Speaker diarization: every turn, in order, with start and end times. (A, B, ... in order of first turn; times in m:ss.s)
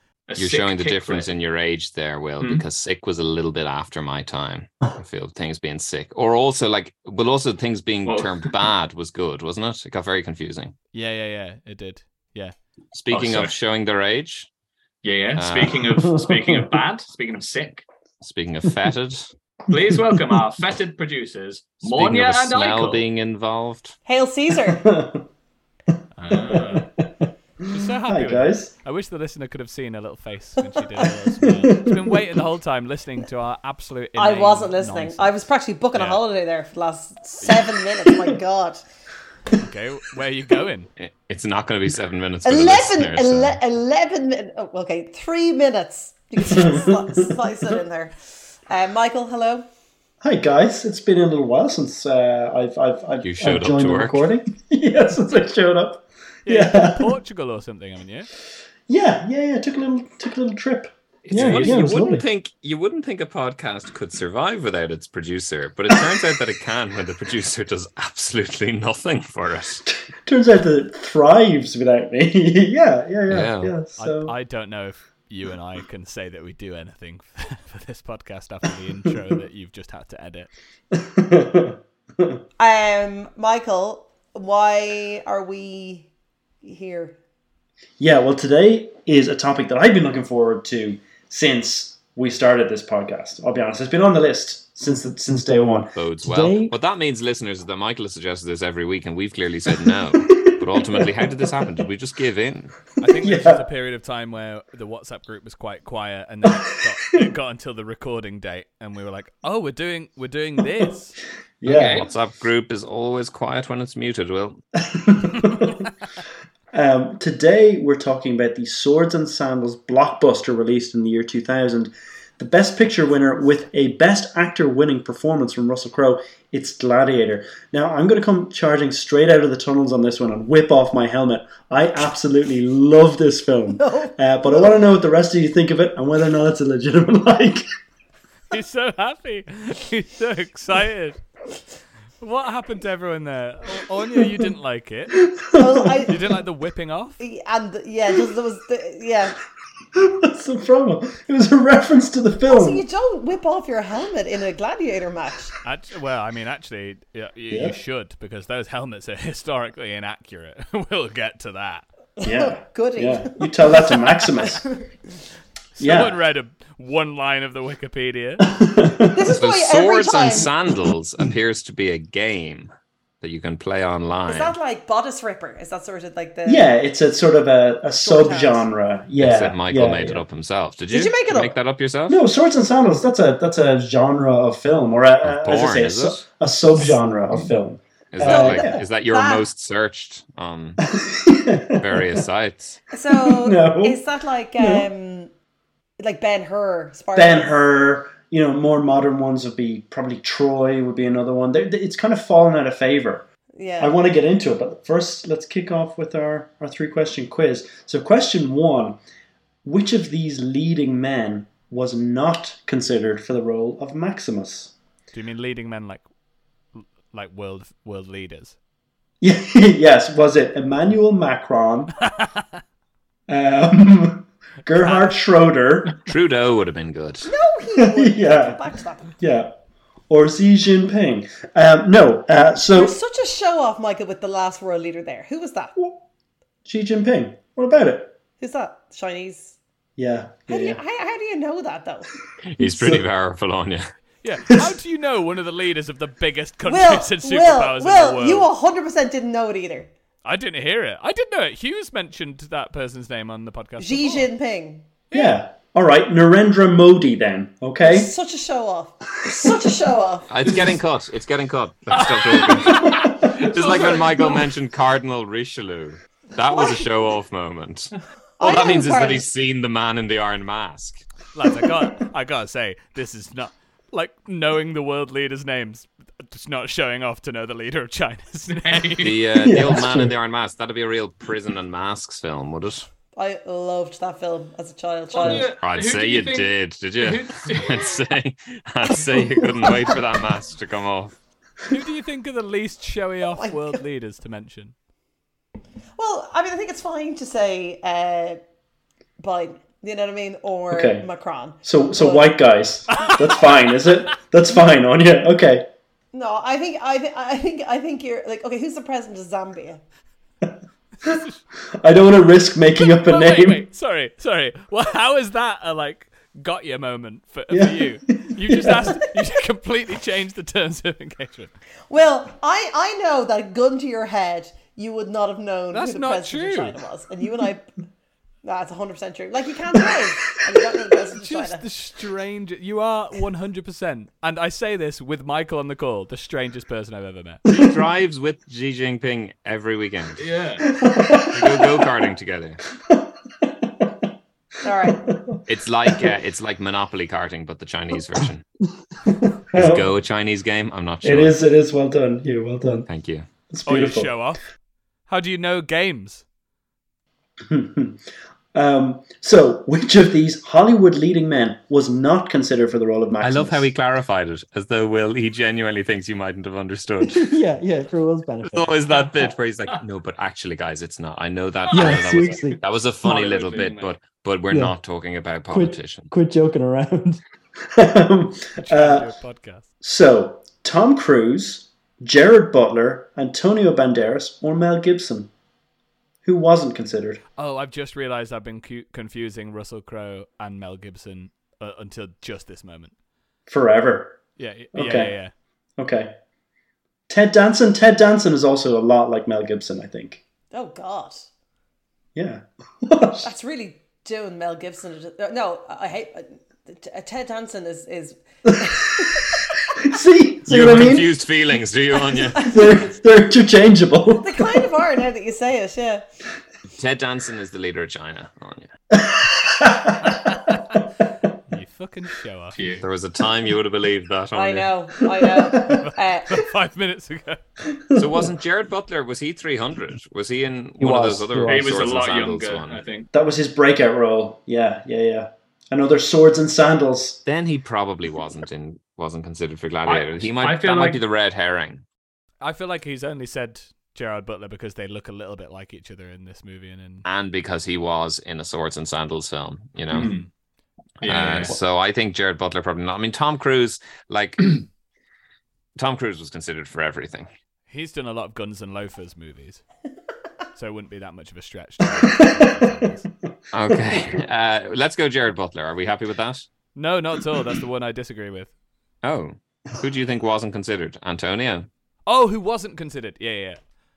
0:00.3-0:01.3 A
0:00.4-0:10.7 B
0:02.4-0:02.6 A
0:08.0-0:08.5 A
0:10.9-0:12.6 C
0:12.9-0:14.5 B
0:13.1-0:13.5 A
0:15.0-0:17.8 A
0:15.4-0:15.9 B
0:16.1-0:16.7 D
0:18.2-0:19.3 B
0:19.7-0:23.1 A
0:21.8-0:24.0 B
0:24.1-0:24.9 E
0:24.7-0:25.3 F
0:26.2-0:26.9 A
0:26.3-0:26.9 F
0:27.7-0:35.4 C
0:28.1-0:28.7 F
0:31.4-0:32.2 F
0:34.2-0:38.8 E
0:35.9-0:36.2 C
0:39.5-0:40.9 C
0:41.0-0:43.6 B
0:42.4-0:48.1 E
0:46.4-0:47.0 F
0:48.7-0:49.7 E
0:50.2-0:57.2 F
0:53.2-0:54.2 B
0:56.5-0:58.3 C
0:58.9-1:00.9 F
1:01.2-1:01.9 A
1:01.3-1:02.2 D
1:01.3-1:09.8 B
1:10.2-1:14.4 F
1:13.3-1:13.8 B
1:14.0-1:20.5 C
1:20.9-1:22.3 F
1:22.6-1:26.1 E
1:26.6-1:27.2 E
1:28.0-1:35.9 F
1:35.3-1:36.8 D
1:35.9-1:42.8 B
1:39.8-1:41.6 F
1:43.0-1:51.2 C
1:43.2-1:43.7 F
1:51.6-1:52.0 F
1:51.6-1:54.6 B
1:51.8-1:52.1 A
1:54.9-1:55.7 F
1:56.7-2:17.7 F
2:13.8-2:14.7 E
2:18.5-2:21.2 C
2:22.2-2:25.3 C
2:25.4-2:26.0 F
2:25.6-2:26.2 E
2:26.1-2:27.2 C
2:27.2-2:29.4 E
2:30.0-2:32.8 F
2:32.5-2:35.5 E
2:35.6-2:41.9 C
2:37.5-2:37.8 F
2:42.2-2:44.7 E
2:42.2-2:44.6 F
2:45.8-2:48.5 C
2:45.8-2:46.2 F
2:48.5-2:49.2 F
2:49.1-2:50.5 E
2:49.2-2:54.6 B
2:54.3-2:56.7 E
2:56.5-3:00.2 F
2:58.0-2:58.7 E
2:59.2-3:02.2 B
3:00.9-3:01.6 E
3:02.1-3:08.8 F
3:05.2-3:06.2 B
3:08.1-3:10.8 B
3:08.2-3:09.4 E
3:10.8-3:12.1 F
3:11.7-3:12.8 B
3:12.9-3:15.3 E
3:13.2-3:14.0 F
3:14.6-3:14.9 F
3:16.0-3:17.6 E
3:17.1-3:23.3 F
3:23.6-3:24.0 E
3:23.8-3:29.0 F
3:29.6-3:34.7 F
3:35.1-3:36.1 C
3:36.8-3:38.6 C
3:39.2-3:42.0 F
3:42.0-3:42.4 C
3:43.3-3:46.0 F
3:46.0-3:47.3 B
3:47.2-3:49.2 E
3:47.8-3:48.6 F
3:49.2-3:49.6 F
3:50.1-3:53.0 F
3:52.7-3:55.7 E
3:55.8-3:56.0 F
3:56.6-3:58.2 F
3:58.4-3:59.6 E
4:00.0-4:00.8 F
4:00.5-4:02.1 E
4:02.4-4:03.9 B
4:02.6-4:03.0 F
4:04.2-4:08.5 C
4:06.7-4:09.9 E
4:10.2-4:14.3 C
4:13.8-4:14.9 E
4:15.1-4:15.4 C
4:15.1-4:18.1 F
4:17.8-4:20.3 E
4:20.3-4:31.1 B
4:21.9-4:24.5 A
4:23.0-4:23.3 F
4:28.4-4:29.3 E
4:31.3-4:39.1 C
4:38.5-4:39.2 A
4:39.0-4:42.9 B
4:39.4-4:40.1 F
4:43.2-4:45.5 E
4:45.1-4:48.0 A
4:45.6-4:51.2 B
4:51.7-4:54.7 C
4:53.3-4:53.8 E
4:56.0-4:58.4 E
4:59.2-5:02.4 E
5:00.7-5:01.1 F
5:01.6-5:05.7 F
5:06.1-5:09.8 E
5:11.0-5:11.4 C
5:11.8-5:13.7 F
5:12.8-5:21.5 C
5:17.5-5:19.0 F
5:21.9-5:27.7 E
5:25.7-5:26.8 C
5:28.4-5:31.6 E
5:31.2-5:37.4 C
5:37.5-5:40.2 B
5:40.2-5:40.7 A
5:40.7-5:41.8 F
5:41.3-5:42.6 B
5:42.9-5:44.0 F
5:44.6-5:45.1 E
5:44.9-5:45.4 F
5:45.5-5:48.5 B
5:49.5-5:49.9 F
5:49.5-5:51.4 B
5:51.0-5:52.9 F
5:52.9-5:53.3 B
5:53.5-5:54.2 F
5:53.7-5:54.4 C
5:55.1-5:56.2 C
5:57.5-5:58.0 F
5:58.5-6:03.7 F
6:03.2-6:07.3 B
6:07.0-6:08.8 D
6:08.4-6:16.1 B
6:08.9-6:09.3 A
6:11.7-6:14.0 A
6:11.7-6:12.6 D
6:14.5-6:14.8 D
6:15.5-6:17.2 D
6:17.8-6:19.1 F
6:18.6-6:19.7 C
6:19.8-6:25.3 F
6:26.2-6:27.2 F
6:27.4-6:32.9 C
6:33.5-6:34.2 F
6:34.4-6:35.3 C
6:34.7-6:35.1 F
6:35.8-6:36.2 F
6:37.1-6:40.2 F
6:40.5-6:41.3 E
6:42.2-6:43.3 F
6:43.2-6:49.4 E
6:48.7-6:49.0 F
6:49.8-6:51.2 F
6:50.5-6:52.6 B
6:52.4-6:54.6 F
6:54.2-6:56.0 E
6:56.8-6:58.7 B
6:58.9-7:00.2 F
7:01.5-7:02.6 C
7:02.5-7:02.8 A
7:02.8-7:04.7 B
7:04.4-7:06.4 E
7:05.8-7:07.4 C
7:07.9-7:08.3 F
7:08.0-7:12.8 B
7:10.8-7:11.7 D
7:11.4-7:13.1 A
7:13.1-7:17.2 F
7:17.2-7:21.8 B
7:19.8-7:21.0 A
7:22.4-7:27.0 C
7:27.0-7:30.2 B
7:29.9-7:30.3 A
7:31.0-7:31.6 A
7:31.0-7:34.6 B
7:35.8-7:37.3 B
7:37.7-7:39.6 C
7:40.6-7:43.1 C
7:42.0-7:42.9 F
7:43.5-7:46.5 B
7:43.7-7:44.2 F
7:46.8-7:48.5 C
7:49.0-7:51.7 B
7:52.1-7:53.6 C